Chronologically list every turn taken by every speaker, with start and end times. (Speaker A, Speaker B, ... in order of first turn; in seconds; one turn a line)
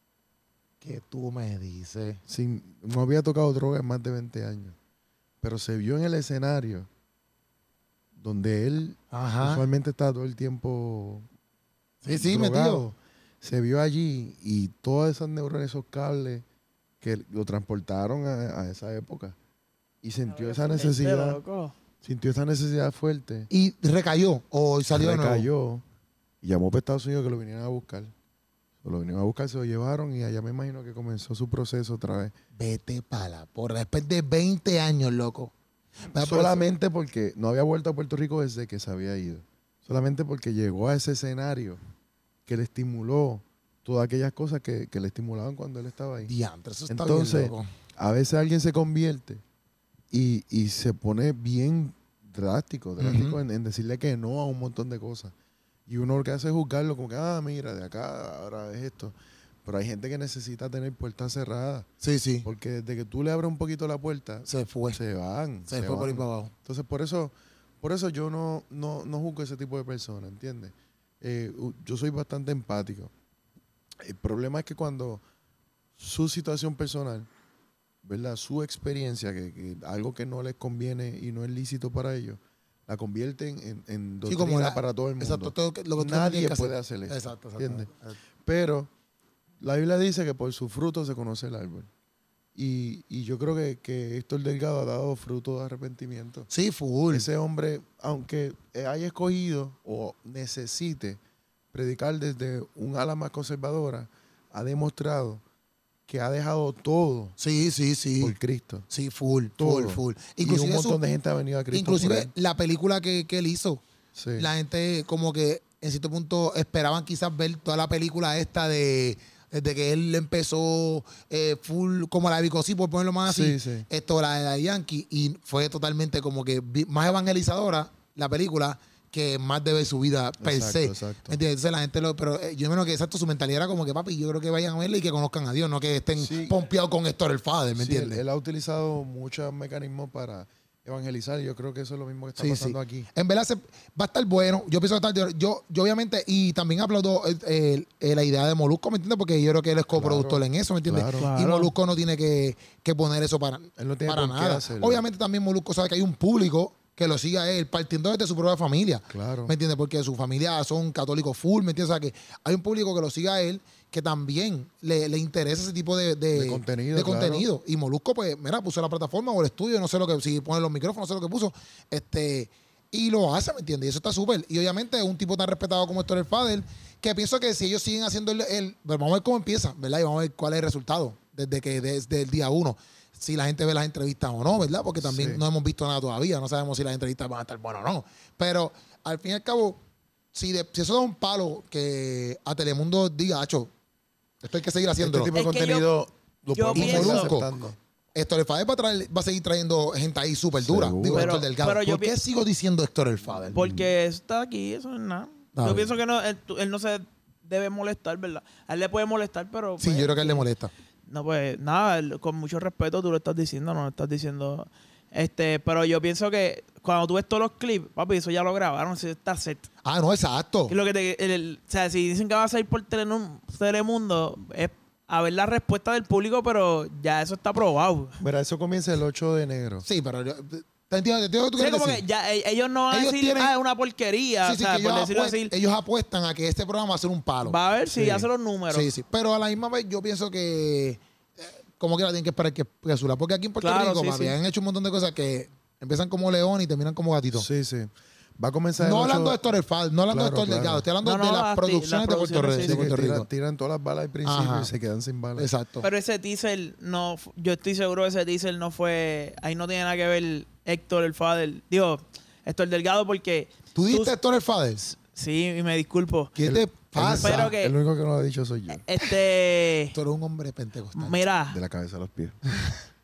Speaker A: 0.8-2.2
Speaker B: 2.3-4.8
Speaker B: 5.4-6.9
Speaker B: 8.2-11.2
Speaker A: 9.1-9.6
Speaker A: 12.0-12.8
Speaker B: 12.0-16.4
Speaker B: 17.0-19.4
Speaker B: 20.0-21.4
Speaker C: 20.3-21.7
Speaker B: 22.0-23.5
Speaker A: 23.5-25.5
Speaker B: 24.9-25.8
Speaker B: 26.4-28.1
Speaker B: 28.8-32.3
Speaker A: 32.5-35.5
Speaker A: 36.1-36.6
Speaker B: 36.1-41.8
Speaker B: 42.5-46.3
Speaker A: 46.3-47.7
Speaker B: 46.9-49.4
Speaker B: 50.1-55.3
Speaker A: 53.0-53.4
Speaker B: 55.9-61.9
Speaker A: 62.0-62.5
Speaker B: 62.4-73.1
Speaker A: 64.5-65.0
Speaker A: 65.7-66.5
Speaker B: 74.0-75.2
Speaker B: 76.0-77.3
Speaker B: 78.0-87.9
Speaker A: 84.2-88.2
Speaker B: 88.4-88.9
Speaker B: 89.6-91.9
Speaker B: 92.5-96.5
Speaker A: 96.5-97.3
Speaker B: 97.1-101.2
Speaker B: 101.7-105.4
Speaker B: 106.1-107.3
Speaker A: 107.4-108.4
Speaker B: 108.2-108.9
Speaker A: 108.9-111.0
Speaker B: 109.6-112.3
Speaker A: 111.7-113.8
Speaker B: 114.1-114.5
Speaker A: 114.4-138.2
Speaker B: 123.3-123.9
Speaker B: 130.4-131.4
Speaker B: 136.2-136.6
Speaker B: 137.8-143.1
Speaker A: 142.4-189.8
Speaker B: 149.9-151.3
Speaker C: 151.2-151.7
Speaker B: 153.8-155.0
Speaker B: 159.1-159.5
Speaker B: 166.3-167.4
Speaker B: 185.0-185.4
Speaker A: 190.3-193.7
Speaker A: 194.4-195.3
Speaker B: 195.0-197.8
Speaker C: 195.3-195.9
Speaker C: 196.5-197.3
Speaker A: 196.7-197.5
Speaker A: 198.1-203.6
Speaker B: 200.6-201.4
Speaker C: 201.1-202.1
Speaker B: 203.3-203.9
Speaker C: 203.5-210.4
Speaker A: 205.6-205.9
Speaker A: 209.8-210.7
Speaker C: 211.1-219.7
Speaker A: 219.8-220.7
Speaker C: 220.7-228.2
Speaker B: 228.2-229.9
Speaker A: 229.8-232.0
Speaker C: 231.6-235.5
Speaker A: 232.9-233.5
Speaker A: 234.4-237.6
Speaker C: 237.4-238.9
Speaker B: 237.9-238.2
Speaker A: 238.7-247.5
Speaker C: 243.6-244.3
Speaker B: 247.3-249.4
Speaker A: 248.8-253.3
Speaker B: 250.1-250.9
Speaker C: 251.0-252.9
Speaker B: 252.6-255.5
Speaker A: 254.2-254.7
Speaker A: 255.4-255.9
Speaker C: 255.8-264.1
Speaker A: 263.7-264.8
Speaker C: 264.8-266.4
Speaker A: 266.4-267.5
Speaker B: 266.4-268.8
Speaker C: 267.1-267.7
Speaker C: 268.8-269.9
Speaker A: 269.9-271.2
Speaker C: 270.9-271.6
Speaker B: 271.5-272.7